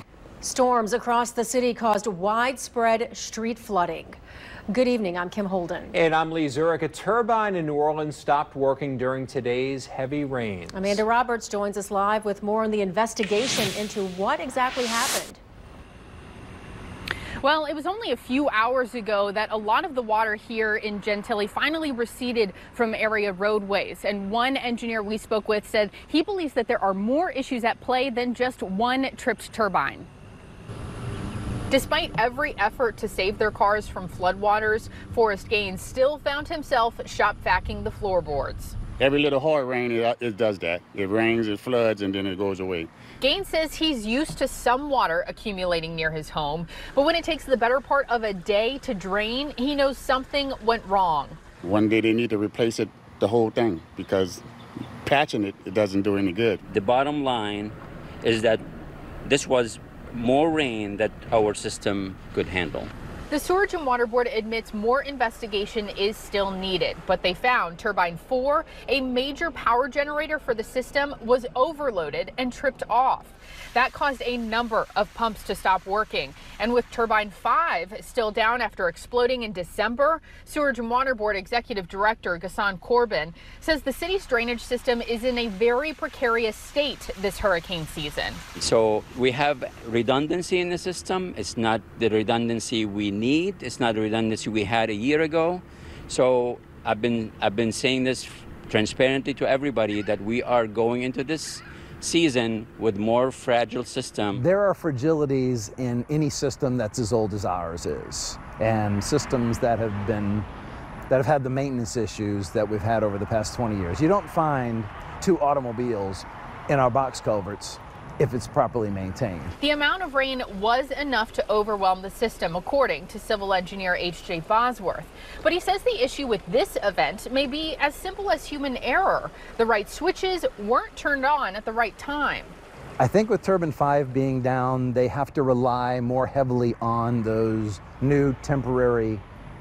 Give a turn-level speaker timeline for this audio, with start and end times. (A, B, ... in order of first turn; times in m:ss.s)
0:00.4-0:05.9 A
0:05.9-0:11.0 B
0:10.7-0:15.4 A
0:17.4-0:30.1 C
0:31.7-0:38.8 C
0:39.0-0:42.9 D
0:43.2-0:51.4 C
0:51.6-0:54.4 D
0:55.0-0:56.6 D
0:56.6-0:58.6 E
0:59.2-1:02.9 E
1:03.3-1:28.4 C
1:28.6-1:44.4 E
1:44.3-1:50.5 F
1:51.1-1:59.5 F
1:59.6-2:12.5 C
2:13.0-2:19.2 F